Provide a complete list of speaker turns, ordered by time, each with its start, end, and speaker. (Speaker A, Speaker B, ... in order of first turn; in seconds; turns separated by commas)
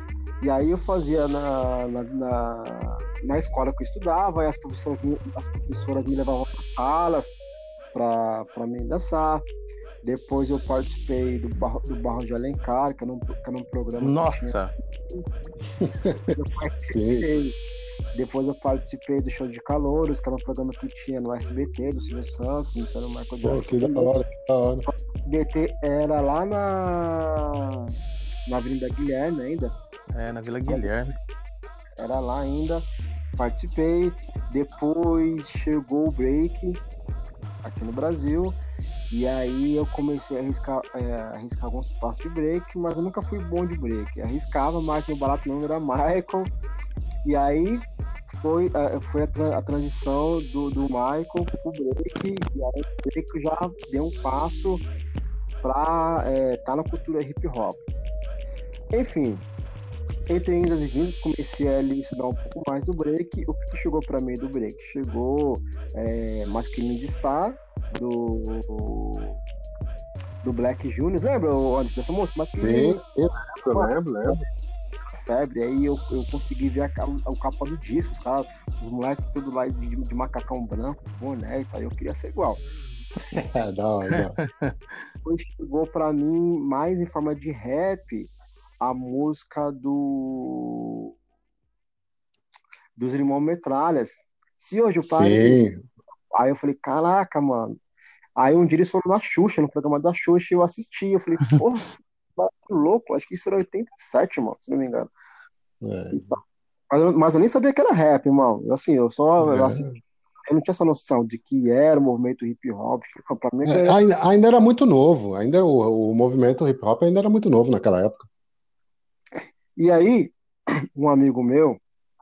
Speaker A: 0.4-7.4, Speaker A: 7.9-9.4, Speaker A: 10.0-14.5, Speaker B: 14.0-14.7, Speaker C: 15.8-16.4, Speaker A: 16.4-17.5, Speaker C: 16.9-17.3, Speaker A: 18.1-24.1, Speaker C: 23.4-24.9, Speaker A: 25.2-27.6, Speaker A: 28.5-29.7, Speaker B: 30.1-31.1, Speaker A: 30.7-30.9, Speaker A: 32.0-32.9, Speaker A: 33.4-36.8, Speaker A: 37.6-38.6, Speaker A: 39.1-46.5, Speaker A: 47.2-54.9, Speaker A: 55.6-57.8, Speaker A: 58.9-59.5, Speaker A: 60.3-69.4, Speaker A: 70.4-73.0, Speaker C: 72.6-74.4, Speaker A: 73.7-74.4, Speaker A: 75.1-82.6, Speaker C: 83.3-84.4, Speaker B: 84.1-85.0, Speaker A: 85.2-88.3, Speaker A: 88.8-91.1, Speaker A: 93.0-95.6, Speaker C: 95.0-95.8, Speaker A: 96.3-97.8, Speaker A: 98.4-105.1, Speaker C: 105.8-106.2, Speaker A: 106.1-109.9, Speaker C: 109.4-110.0, Speaker A: 110.5-114.0, Speaker C: 113.7-118.3, Speaker A: 119.8-120.3, Speaker A: 121.0-121.8